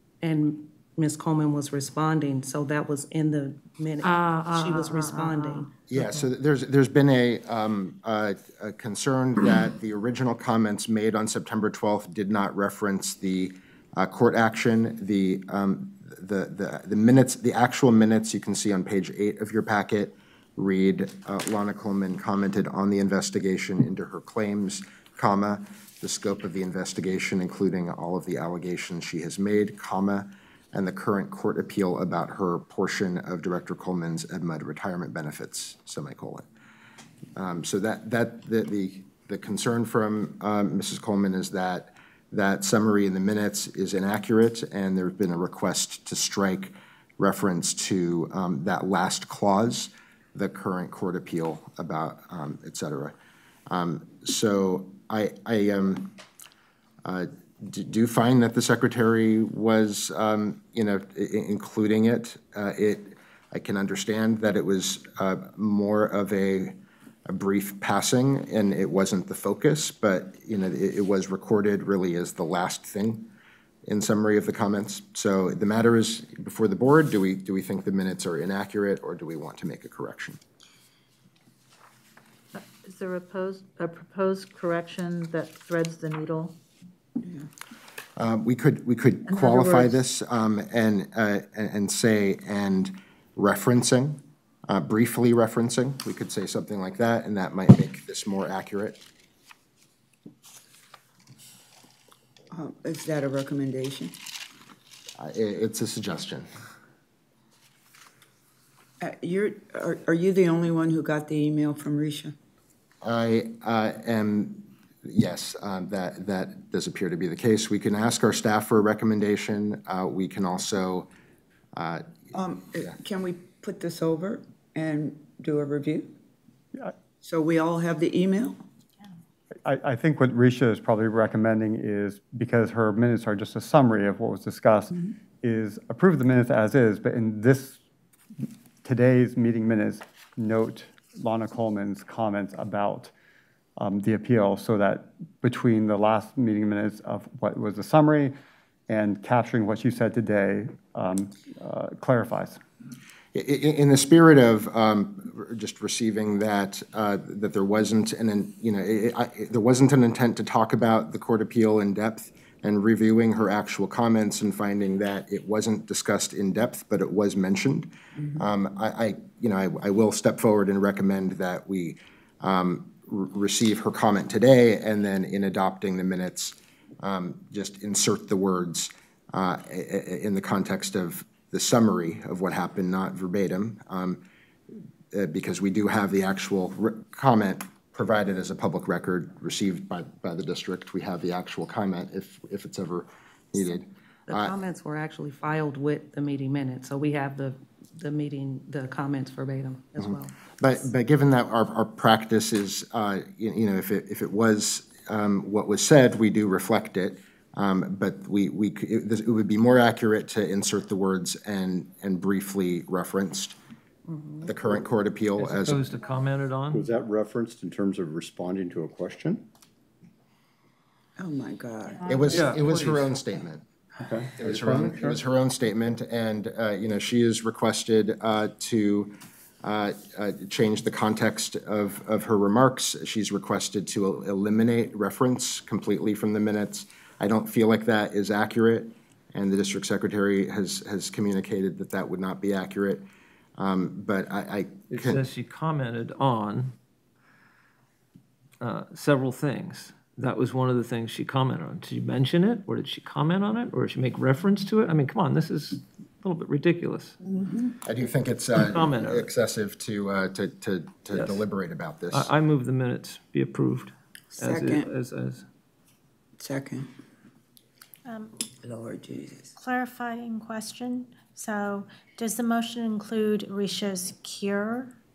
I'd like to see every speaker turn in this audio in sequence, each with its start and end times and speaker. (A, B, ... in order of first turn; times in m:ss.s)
0:00.2-0:05.7 A
0:04.0-0:06.2 B
0:05.9-0:36.4 C
0:37.4-0:53.1 C
0:53.7-0:56.2 C
0:57.0-1:13.3 C
1:13.8-1:20.4 C
1:22.5-1:26.6 B
1:28.2-1:39.0 C
1:29.2-1:30.0 B
1:42.5-1:44.2 D
1:45.2-1:46.5 C
1:49.0-1:52.4 D
1:53.0-2:01.1 C
2:01.7-2:02.2 C
2:02.3-2:06.2 D
2:07.2-2:08.6 D
2:09.6-2:17.8 E
2:18.8-2:23.1 E
2:23.8-2:28.3 E
2:28.9-2:32.6 E
2:33.3-3:04.2 C
3:05.1-3:14.5 C
3:14.3-3:20.3 A
3:20.6-3:33.6 C
3:34.1-3:34.4 D
3:34.4-3:35.8 C
3:35.4-3:36.9 F
3:36.7-3:39.4 G
3:41.2-3:42.1 D
3:42.0-3:43.6 C
3:42.0-3:42.8 B
3:42.3-3:43.1 F
3:44.0-3:45.2 G
3:44.4-4:03.0 C
4:03.6-4:05.2 C
4:04.9-4:06.8 F
4:08.6-4:17.2 F
4:17.2-4:17.7 D
4:17.8-4:22.3 C
4:18.5-4:19.3 F
4:21.1-4:21.4 F
4:22.1-4:25.4 F
4:24.4-4:24.9 D
4:26.4-4:26.9 D
4:28.0-4:28.4 H
4:28.6-4:29.5 D
4:29.5-4:34.9 H